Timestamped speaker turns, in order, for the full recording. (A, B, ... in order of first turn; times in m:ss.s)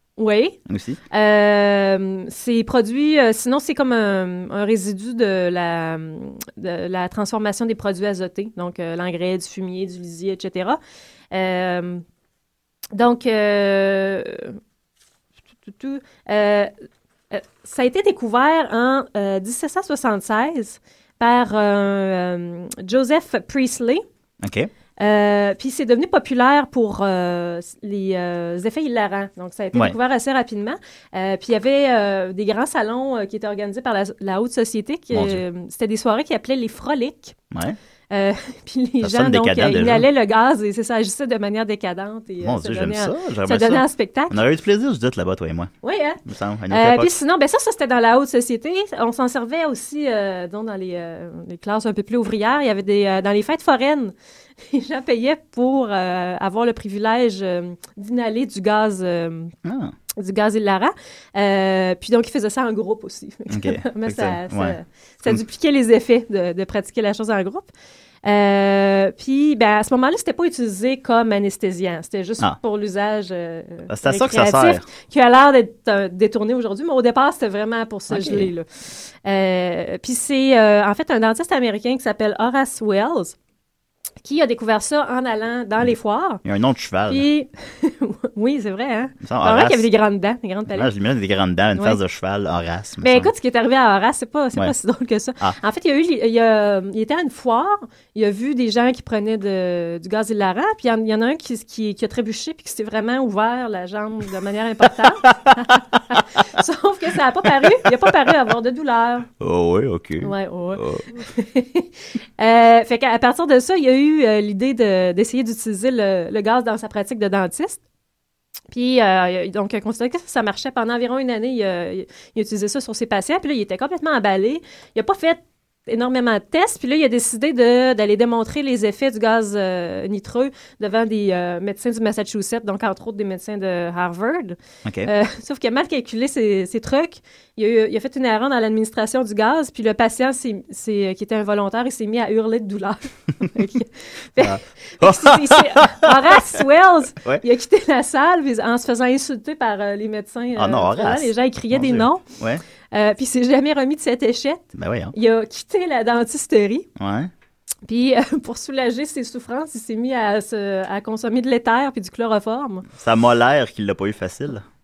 0:00.2-0:00.6 A
0:00.7-0:01.0 B
0:01.1-0:10.8 A
0:11.3-0:12.0 A
0:13.0-0:14.6 A
0:15.6-0:16.7 A
0:17.3-0:24.0 A
0:24.4-0:24.7 B
0:25.0-0:37.4 A
0:35.1-0:35.4 B
0:37.5-0:37.8 B
0:38.1-0:44.4 A
0:39.0-0:40.1 B
0:42.4-0:45.7 B
0:45.8-0:54.1 A
0:46.2-0:47.1 B
0:54.7-0:59.5 A
0:59.6-0:59.9 B
1:00.2-1:07.7 A
1:03.5-1:05.4 B
1:08.2-1:18.7 A
1:13.9-1:14.8 B
1:18.1-1:18.5 B
1:19.2-1:23.4 A
1:24.2-1:26.4 A
1:26.4-1:27.3 B
1:27.1-1:30.9 A
1:29.2-1:29.9 B
1:30.7-1:33.3 B
1:33.0-1:49.3 A
1:49.4-1:51.1 B
1:50.2-1:57.8 A
1:58.7-2:32.2 A
2:14.8-2:15.1 B
2:24.4-2:26.4 B
2:30.6-2:32.6 B
2:32.9-2:36.9 A
2:34.8-2:35.1 B
2:37.0-2:37.3 B
2:37.9-2:42.9 A
2:43.0-2:44.6 B